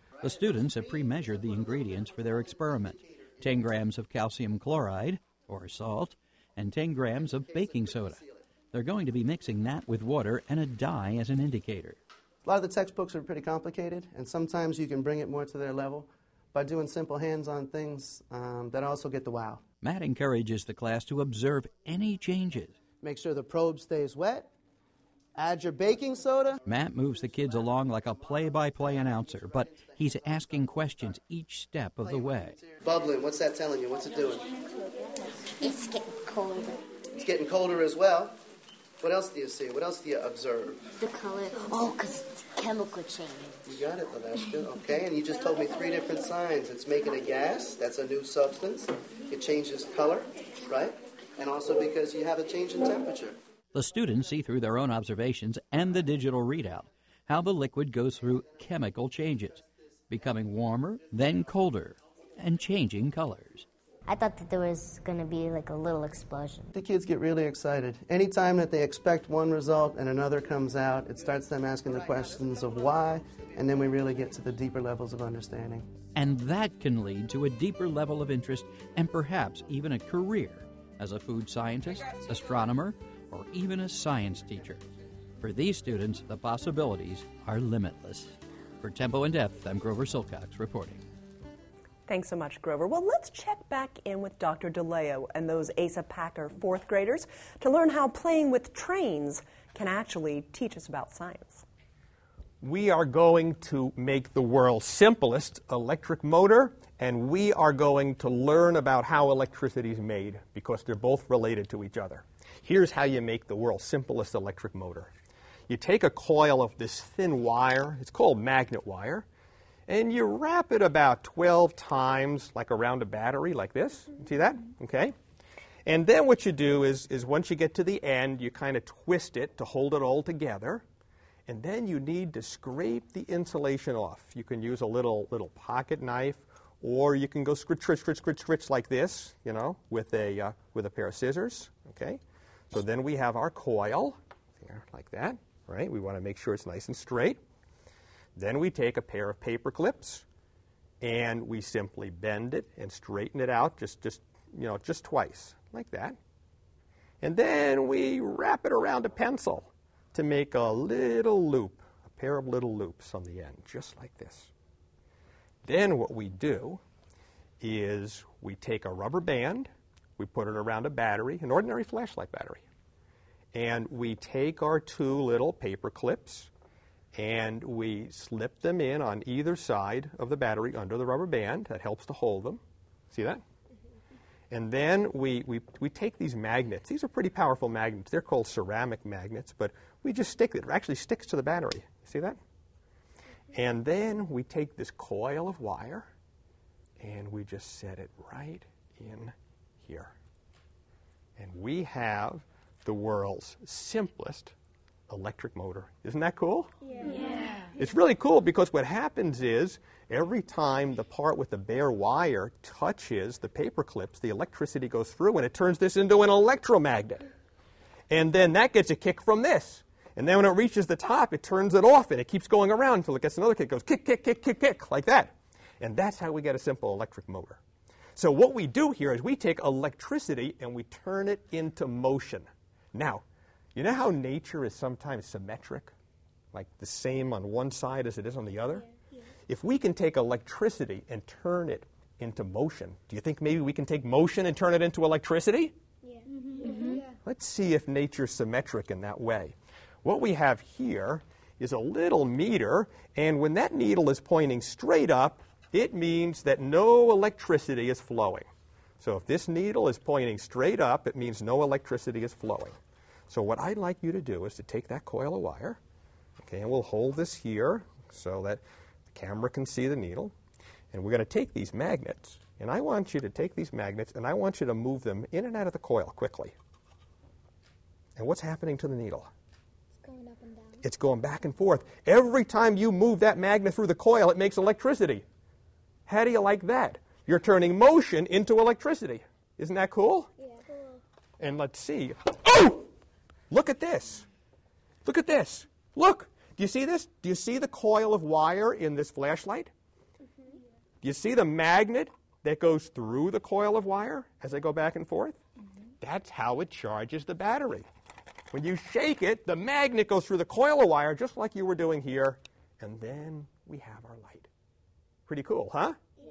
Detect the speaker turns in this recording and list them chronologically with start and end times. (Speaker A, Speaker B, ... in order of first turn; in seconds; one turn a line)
Speaker A: 0.2-12.0
Speaker B: 12.4-19.6
Speaker A: 19.8-22.8
Speaker B: 23.0-24.5
Speaker B: 25.4-26.6
Speaker A: 26.7-32.6
Speaker B: 32.6-34.5
Speaker C: 35.6-36.8
Speaker B: 37.1-38.4
Speaker B: 39.0-40.8
Speaker C: 41.0-43.6
Speaker B: 43.6-53.4
Speaker A: 53.7-63.7
Speaker C: 64.1-66.7
Speaker B: 66.7-75.9
Speaker A: 76.2-84.8
Speaker A: 85.4-91.0
Speaker D: 92.1-101.7
Speaker E: 102.6-115.1
Speaker E: 115.7-119.2
Speaker E: 119.9-125.1
Speaker E: 125.9-130.8
Speaker E: 131.5-142.2
Speaker E: 142.7-147.4
Speaker E: 148.4-150.2
Speaker E: 151.0-156.2
Speaker E: 157.2-164.5
Speaker E: 165.7-166.8
Speaker E: 167.6-172.6
Speaker E: 173.5-176.5
Speaker E: 177.1-182.6
Speaker E: 183.1-183.4
Speaker E: 184.5-192.4
Speaker E: 193.5-196.1
Speaker E: 197.0-200.1
Speaker E: 201.4-204.5
Speaker E: 205.1-206.7
Speaker E: 207.8-217.3
Speaker E: 218.1-227.6
Speaker E: 228.2-233.2
Speaker E: 233.8-235.9
Speaker E: 236.5-238.9
Speaker E: 239.5-245.7
Speaker E: 247.2-258.5
Speaker E: 259.0-262.8
Speaker E: 263.3-265.8
Speaker E: 266.4-270.3
Speaker E: 270.9-276.5
Speaker E: 278.2-279.3
Speaker E: 280.8-285.2
Speaker E: 286.1-290.3
Speaker E: 291.4-292.9
Speaker E: 293.5-294.3
Speaker E: 295.1-299.7
Speaker E: 301.0-305.4
Speaker E: 306.0-307.9
Speaker E: 308.5-314.5
Speaker E: 315.3-316.0